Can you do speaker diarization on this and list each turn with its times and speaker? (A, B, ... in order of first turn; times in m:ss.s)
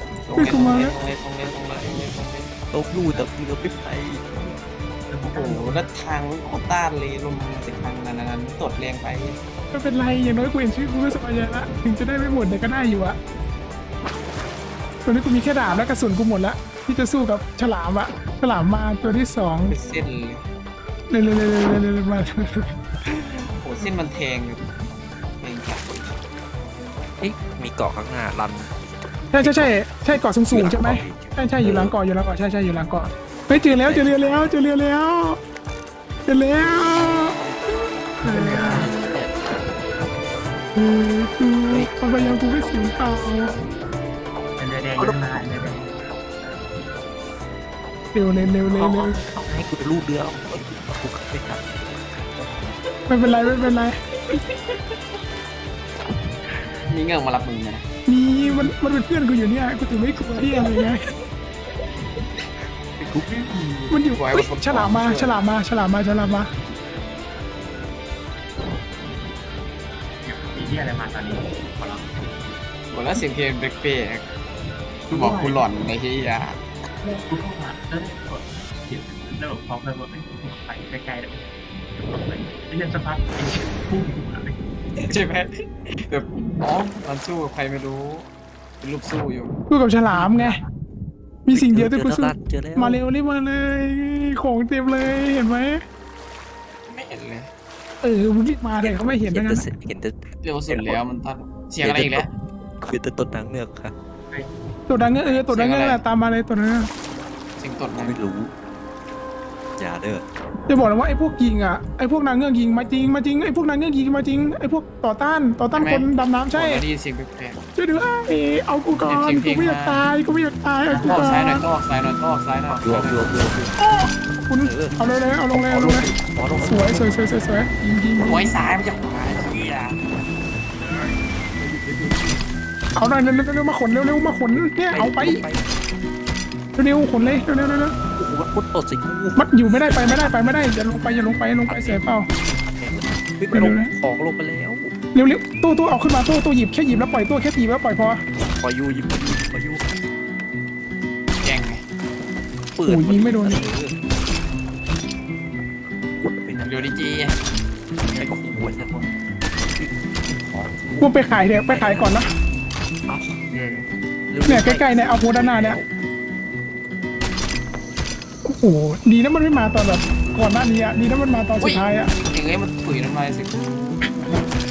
0:00.2-0:02.5 A
0:00.4-0:01.0 B
0:02.7-0:04.5 C
0:03.0-0:03.3 D
0:05.1-0:05.9 D
0:05.3-0:09.4 A
0:09.7-0:13.2 B
0:15.0-0:19.8 B
0:19.6-0:20.5 A
0:21.1-0:23.9 B
0:23.6-0:24.6 A
0:25.4-0:26.1 A
0:27.2-0:29.8 C
0:29.3-0:35.4 B
0:30.5-0:32.0 C
0:33.8-0:34.5 C
0:36.2-0:39.1 B
0:36.8-0:37.6 C
0:38.2-0:38.9 D
0:38.7-0:40.1 C
0:40.7-0:43.5 B
0:41.7-0:42.0 C
0:44.6-0:45.9 D
0:45.0-0:45.4 C
0:48.1-0:49.2 B
0:48.6-0:52.2 C
0:53.1-0:54.4 B
0:56.9-0:57.8 A
0:58.1-1:01.0 B
1:03.0-1:03.5 C
1:03.2-1:04.0 D
1:03.9-1:06.5 B
1:04.1-1:05.5 A
1:10.2-1:11.4 D
1:11.8-1:12.5 C
1:12.9-1:14.2 A
1:15.1-1:15.7 D
1:15.1-1:16.6 A
1:17.0-1:24.6 D
1:25.0-1:28.3 A
1:28.8-1:29.6 A
1:29.7-1:30.6 B
1:30.1-1:30.7 D
1:31.4-1:35.8 B
1:31.5-1:33.0 C
1:36.9-1:37.5 A
1:38.0-1:39.6 B
1:38.8-1:41.0 C
1:40.4-1:42.3 A
1:41.8-1:42.3 C
1:42.8-1:43.9 C
1:44.9-1:46.9 B
1:45.2-1:46.0 A
1:47.6-1:48.2 A
1:48.0-1:48.5 C
1:49.8-1:50.2 C
1:50.7-1:56.8 B
1:55.7-1:57.6 A
1:57.8-2:01.7 B
1:59.0-2:00.0 A
2:00.9-2:01.4 D
2:01.0-2:03.3 A
2:02.7-2:03.8 C
2:03.8-2:08.6 B
2:04.6-2:05.0 C
2:05.5-2:07.2 C
2:08.2-2:10.0 A
2:11.6-2:12.4 C
2:13.0-2:15.4 B
2:14.6-2:15.8 C
2:16.8-2:18.0 B
2:18.1-2:20.5 C
2:19.4-2:22.3 B
2:22.8-2:24.9 C
2:23.5-2:23.9 B
2:25.1-2:28.2 B
2:28.5-2:29.8 C
2:31.4-2:31.8 A
2:32.7-2:33.9 C
2:32.8-2:33.6 B
2:35.8-2:36.9 C
2:36.5-2:37.4 A
2:38.1-2:39.1 A
2:38.1-2:38.9 C
2:39.7-2:42.2 C
2:41.0-2:42.3 B
2:43.1-2:43.4 C
2:43.5-2:43.9 A
2:44.3-2:45.9 C
2:44.4-2:45.8 B
2:48.4-2:52.1 B
2:51.6-2:54.0 A
2:54.0-2:54.4 B